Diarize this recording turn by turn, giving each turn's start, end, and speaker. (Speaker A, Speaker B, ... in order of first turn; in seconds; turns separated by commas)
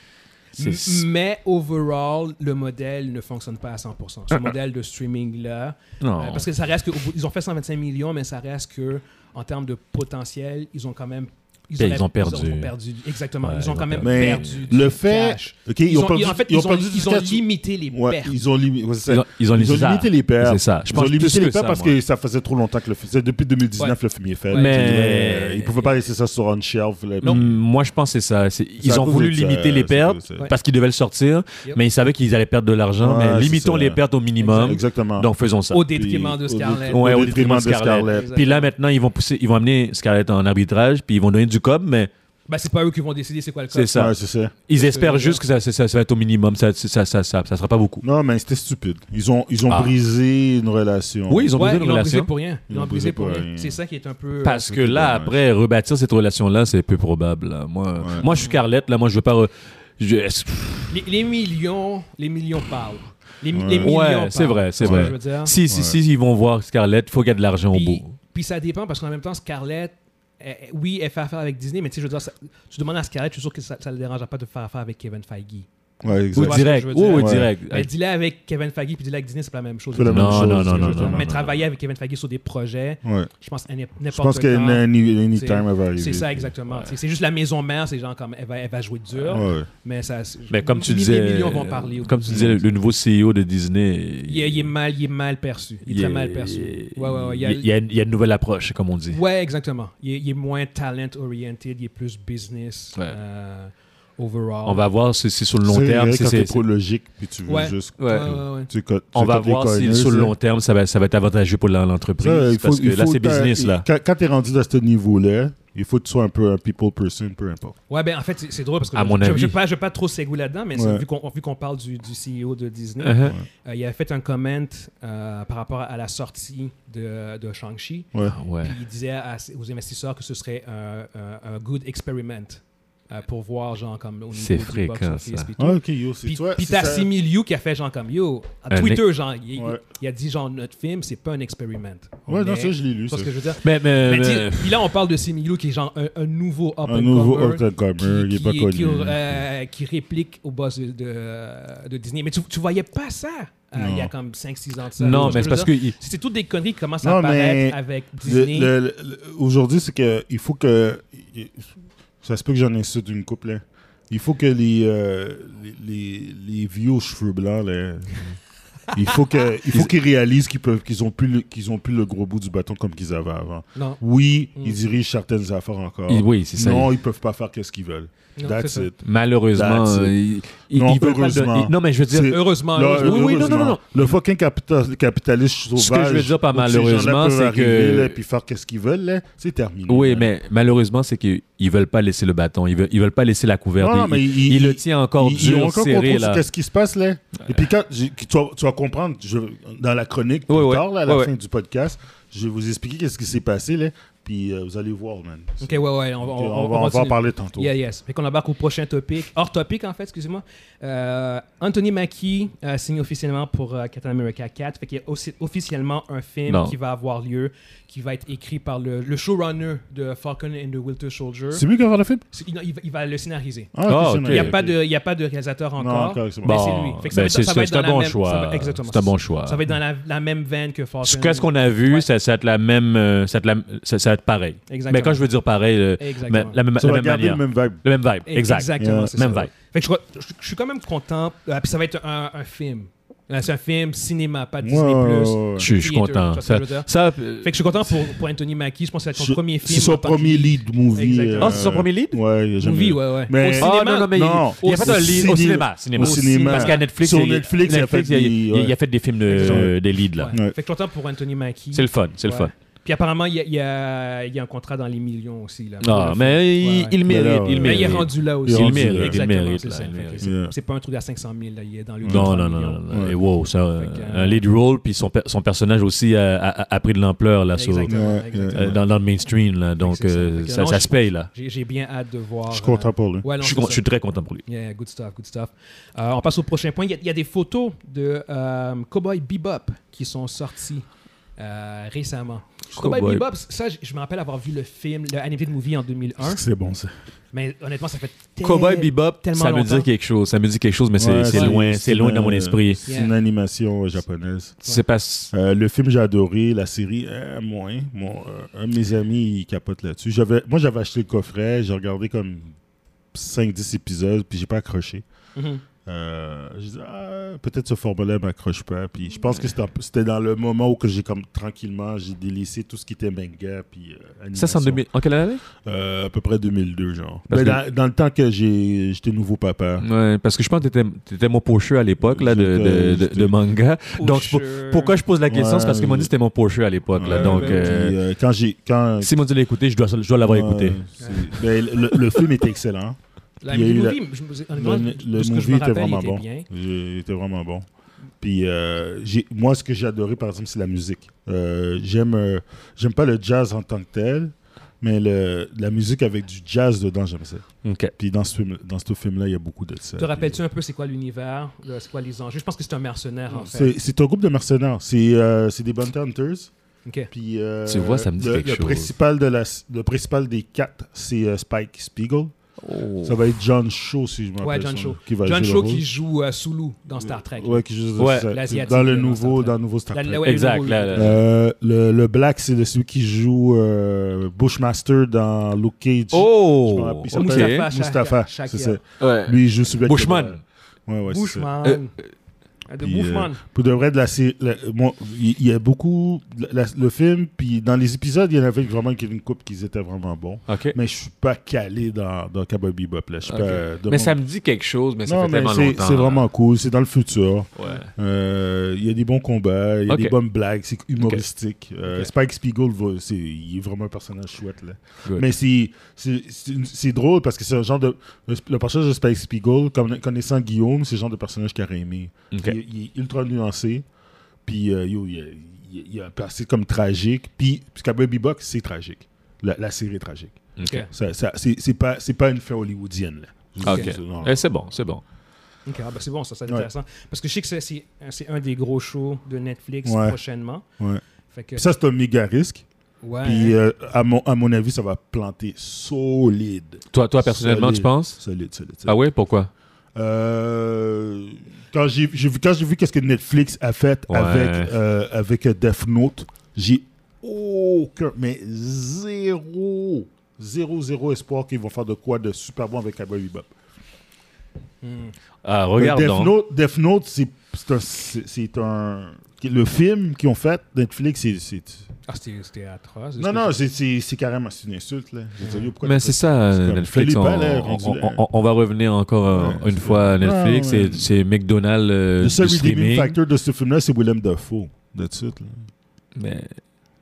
Speaker A: 0.6-1.0, Speaker B: 0.6-18.4, Speaker A: 6.0-6.5, Speaker A: 11.8-12.7, Speaker A: 13.4-14.8, Speaker C: 14.0-27.6, Speaker A: 19.1-21.9, Speaker B: 24.5-24.9, Speaker A: 24.5-25.8, Speaker A: 27.2-35.9, Speaker C: 28.8-30.5, Speaker C: 33.0-35.3, Speaker B: 34.4-34.8, Speaker B: 35.7-37.4, Speaker C: 35.9-38.3, Speaker A: 36.9-42.1, Speaker B: 38.1-38.7, Speaker B: 42.5-44.1, Speaker A: 43.7-44.1, Speaker C: 43.9-44.5, Speaker A: 44.7-48.0, Speaker B: 44.8-45.4, Speaker C: 48.0-51.5, Speaker A: 49.7-49.9, Speaker A: 51.3-52.3, Speaker B: 51.5-54.7, Speaker C: 52.7-53.8, Speaker A: 54.4-61.0, Speaker C: 54.6-55.4, Speaker C: 58.0-58.3, Speaker B: 58.2-58.6, Speaker B: 60.9-65.5, Speaker C: 63.5-63.9, Speaker A: 63.8-68.1, Speaker C: 64.8-65.1, Speaker C: 65.7-66.0, Speaker B: 67.7-75.7, Speaker C: 76.0-77.5, Speaker B: 76.3-92.6, Speaker A: 76.3-77.9, Speaker C: 79.9-81.3, Speaker A: 80.1-81.5, Speaker C: 83.0-83.3, Speaker C: 84.1-86.5, Speaker C: 89.3-89.7, Speaker A: 90.5-94.7, Speaker C: 92.3-92.6, Speaker B: 94.3-97.7, Speaker A: 95.8-99.2, Speaker B: 99.1-104.8, Speaker A: 104.6-106.6, Speaker C: 105.6-110.3, Speaker B: 107.5-108.7, Speaker A: 108.0-108.4, Speaker A: 109.1-113.8, Speaker C: 112.2-117.8, Speaker B: 117.9-158.7, Speaker A: 118.9-119.6, Speaker C: 120.7-121.0, Speaker A: 123.0-123.3, Speaker A: 128.2-128.8, Speaker A: 134.3-135.5, Speaker C: 135.6-137.1, Speaker A: 138.7-139.0, Speaker C: 142.3-143.3, Speaker A: 143.6-144.9, Speaker C: 146.8-149.2, Speaker C: 153.8-154.1, Speaker A: 155.0-155.9, Speaker C: 155.1-155.5, Speaker C: 157.0-161.7, Speaker C: 162.2-168.3, Speaker C: 168.9-180.1, Speaker B: 173.7-174.0, Speaker A: 176.1-176.9, Speaker B: 178.4-178.9, Speaker A: 179.0-184.1, Speaker C: 180.7-190.3, Speaker B: 182.2-183.7, Speaker A: 185.8-188.2, Speaker A: 189.9-196.4, Speaker C: 193.8-207.7, Speaker A: 197.4-197.7, Speaker A: 200.5-201.3, Speaker B: 205.6-221.6, Speaker A: 216.5-216.7, Speaker C: 221.5-222.2, Speaker B: 222.3-223.7, Speaker C: 223.7-224.8, Speaker A: 223.9-224.6, Speaker B: 224.2-232.1, Speaker C: 225.8-226.6, Speaker A: 226.4-229.6, Speaker A: 231.0-239.5, Speaker B: 234.7-235.3, Speaker B: 236.0-236.6, Speaker C: 236.8-237.8, Speaker B: 238.2-251.7, Speaker C: 238.8-239.4, Speaker C: 244.6-245.7, Speaker A: 245.6-247.9, Speaker C: 249.1-258.7, Speaker A: 251.4-252.2, Speaker B: 252.6-255.3, Speaker A: 253.5-260.3, Speaker B: 256.0-256.9, Speaker B: 259.3-267.0, Speaker C: 259.3-259.8, Speaker A: 261.7-262.5, Speaker A: 265.8-270.3, Speaker C: 267.0-269.2, Speaker B: 267.5-272.8, Speaker C: 270.2-270.5, Speaker C: 272.0-272.3, Speaker A: 272.1-277.9, Speaker C: 272.9-273.1, Speaker B: 273.8-274.4, Speaker B: 277.5-278.8, Speaker C: 277.9-278.8, Speaker A: 278.5-281.3, Speaker B: 279.8-283.8, Speaker C: 282.5-283.2, Speaker A: 283.4-284.4, Speaker B: 284.4-290.8, Speaker B: 291.4-296.4, Speaker A: 292.7-293.2, Speaker C: 296.2-296.9, Speaker B: 297.3-299.9, Speaker A: 298.4-302.8, Speaker C: 301.0-304.6, Speaker B: 302.9-303.1, Speaker A: 304.6-305.3, Speaker C: 305.3-312.5, Speaker C: 313.1-315.0, Speaker B: 315.4-315.6, Speaker C: 315.9-324.8, Speaker A: 324.3-325.4, Speaker C: 325.6-329.8, Speaker A: 327.3-327.6, Speaker A: 329.8-338.0, Speaker C: 332.0-333.4, Speaker B: 334.0-334.9, Speaker C: 335.3-336.1, Speaker C: 337.0-339.1, Speaker B: 337.1-337.8, Speaker A: 339.0-340.8, Speaker C: 340.2-343.0, Speaker B: 341.0-341.3, Speaker B: 343.4-346.5, Speaker C: 343.5-344.0, Speaker C: 344.5-347.6, Speaker C: 348.2-360.4, Speaker A: 357.6-357.9, Speaker B: 360.0-363.7, Speaker C: 363.5-366.5, Speaker C: 367.1-372.3, Speaker A: 367.6-368.9, Speaker A: 372.6-373.2, Speaker C: 373.0-375.8, Speaker B: 374.4-377.6, Speaker C: 377.0-380.3, Speaker A: 378.0-378.3, Speaker B: 378.3-381.1, Speaker A: 380.2-381.1, Speaker C: 380.9-391.5, Speaker A: 386.1-387.7, Speaker B: 387.1-388.8, Speaker A: 389.0-390.4, Speaker B: 391.1-391.9, Speaker B: 392.7-393.4, Speaker C: 392.8-404.2, Speaker A: 400.5-400.8, Speaker A: 403.2-406.2, Speaker C: 405.1-423.8, Speaker A: 407.6-407.9, Speaker A: 409.9-410.2, Speaker A: 422.3-422.6, Speaker C: 424.4-434.4, Speaker A: 430.6-430.9, Speaker B: 430.6-430.9, Speaker A: 433.6-435.0, Speaker B: 433.6-433.9, Speaker B: 435.6-440.6, Speaker C: 439.8-440.2, Speaker B: 441.3-441.6, Speaker C: 441.6-442.6, Speaker B: 443.0-443.6, Speaker C: 443.2-449.0, Speaker A: 446.9-448.2, Speaker A: 448.9-449.5, Speaker C: 449.9-463.5, Speaker A: 454.1-454.7, Speaker B: 464.8-465.1, Speaker A: 465.4-466.3, Speaker C: 465.8-471.8, Speaker B: 472.1-473.6, Speaker C: 473.2-478.2, Speaker B: 475.4-475.7, Speaker A: 475.8-483.1, Speaker C: 479.3-481.1, Speaker C: 482.2-485.6, Speaker A: 486.1-486.6